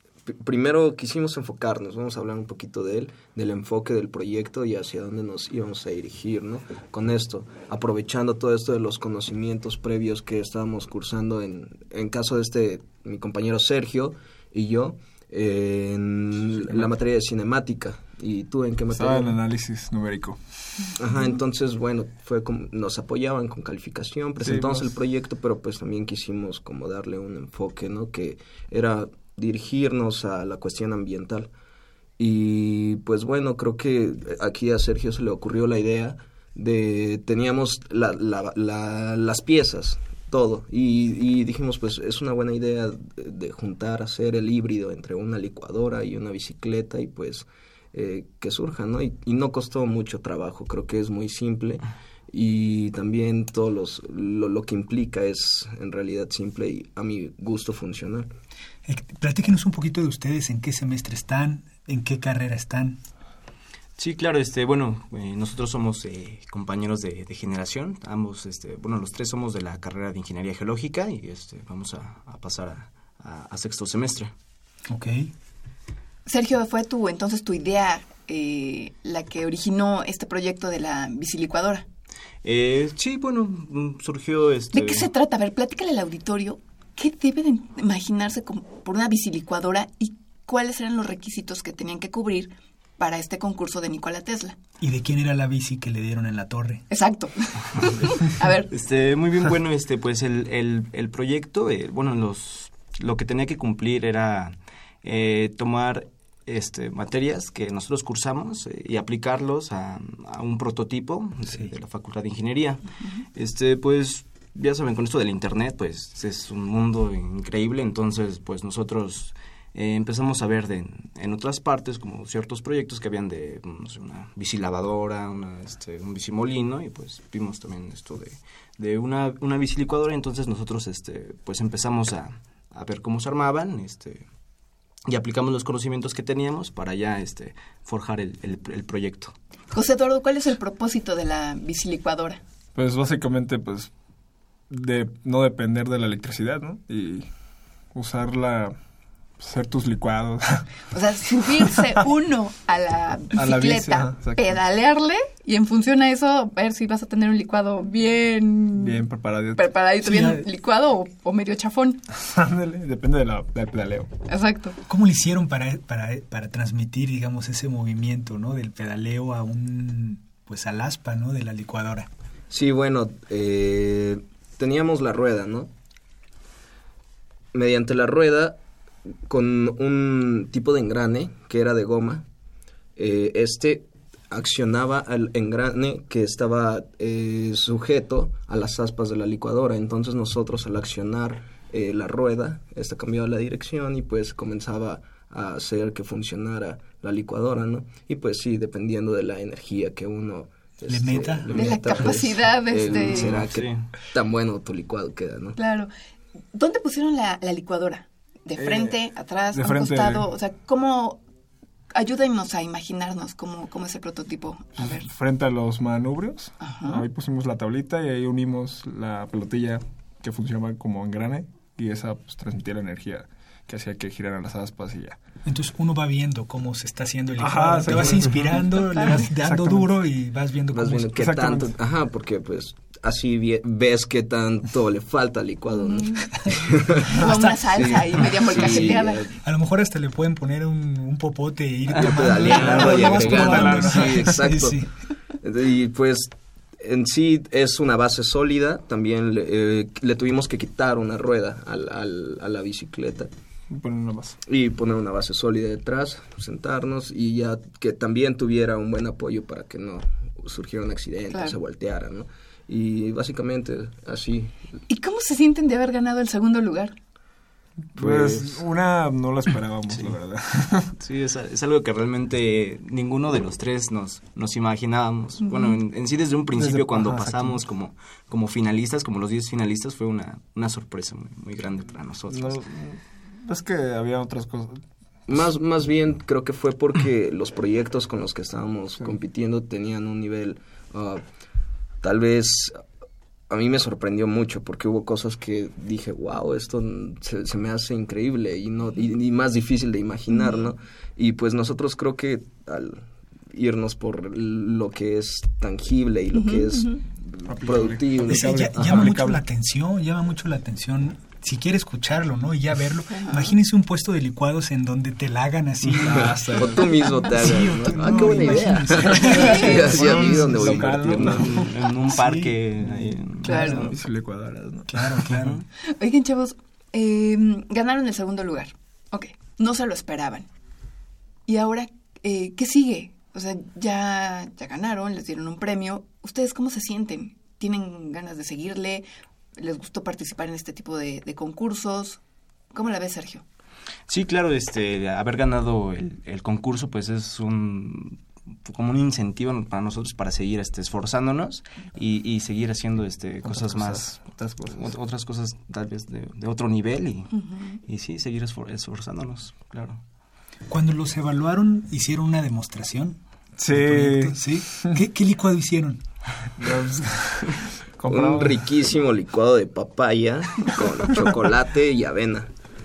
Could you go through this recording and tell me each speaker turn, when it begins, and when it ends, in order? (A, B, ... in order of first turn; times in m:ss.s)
0:00.3-0:19.4 A
0:16.6-0:16.9 B
0:18.9-0:20.7 B
0:21.0-0:31.5 A
0:24.4-0:25.0 B
0:32.2-0:58.3 A
0:58.8-1:03.0 C
1:04.0-1:14.3 D
1:14.9-1:15.3 C
1:16.2-1:21.8 E
1:22.4-1:25.1 D
1:24.7-1:34.6 E
1:34.8-1:36.9 C
1:36.9-1:38.7 E
1:38.7-1:52.8 D
1:53.3-2:14.3 D
2:15.0-2:19.3 D
2:19.7-2:22.4 E
2:22.7-2:24.0 B
2:24.7-2:28.8 B
2:29.4-2:30.7 B
2:30.9-2:39.0 E
2:31.4-2:31.9 B
2:33.3-2:34.6 B
2:38.7-2:39.9 B
2:39.5-2:42.0 E
2:40.0-2:40.4 C
2:42.1-2:44.1 B
2:44.3-2:44.8 E
2:44.9-2:52.1 C
2:52.5-2:55.7 A
2:57.5-2:58.6 A
2:59.2-3:02.2 A
3:03.0-3:25.6 A
3:20.9-3:21.7 C
3:21.5-3:23.4 E
3:23.1-3:23.9 D
3:25.6-3:25.9 E
3:26.5-3:31.2 E
3:28.6-3:30.3 B
3:31.9-3:35.1 E
3:34.8-3:45.2 B
3:36.6-3:37.0 E
3:45.4-3:51.2 C
3:47.4-3:49.9 B
3:49.0-3:49.2 E
3:50.7-3:57.1 A
3:51.0-3:51.8 B
3:55.7-3:56.4 E
3:57.2-3:59.3 E
3:57.2-4:04.9 C
3:57.7-3:59.3 A
4:01.9-4:04.8 A
4:02.0-4:04.4 B
4:05.4-4:13.3 A
4:13.7-4:14.4 B
4:14.4-4:24.7 A
4:21.3-4:21.6 E
4:24.9-4:26.9 E
4:27.9-4:30.9 B
4:28.0-4:28.6 A
4:31.0-4:42.6 D
4:36.5-4:37.7 B
4:42.3-4:45.8 B
4:45.3-4:51.2 A
4:52.0-4:52.8 A
4:53.5-5:09.1 A
5:00.3-5:00.6 E
5:06.3-5:07.0 E
5:07.4-5:09.4 B
5:08.2-5:21.3 C
5:13.1-5:13.6 E
5:15.8-5:21.8 B
5:16.1-5:21.6 A
5:19.3-5:19.8 E
5:21.4-5:24.0 D
5:22.0-5:22.5 C
5:23.4-5:23.9 C
5:23.4-5:23.9 E
5:23.5-5:25.4 B
5:24.9-5:25.6 C
5:25.9-5:30.5 E
5:31.5-5:39.0 E
5:39.6-5:42.2 E
5:42.7-5:43.4 E
5:44.1-6:00.0 D
5:53.4-5:55.0 B
5:57.3-5:57.8 E
6:00.7-6:06.0 C
6:03.6-6:05.0 B
6:06.6-6:08.7 B
6:08.0-6:12.5 A
6:10.6-6:11.1 B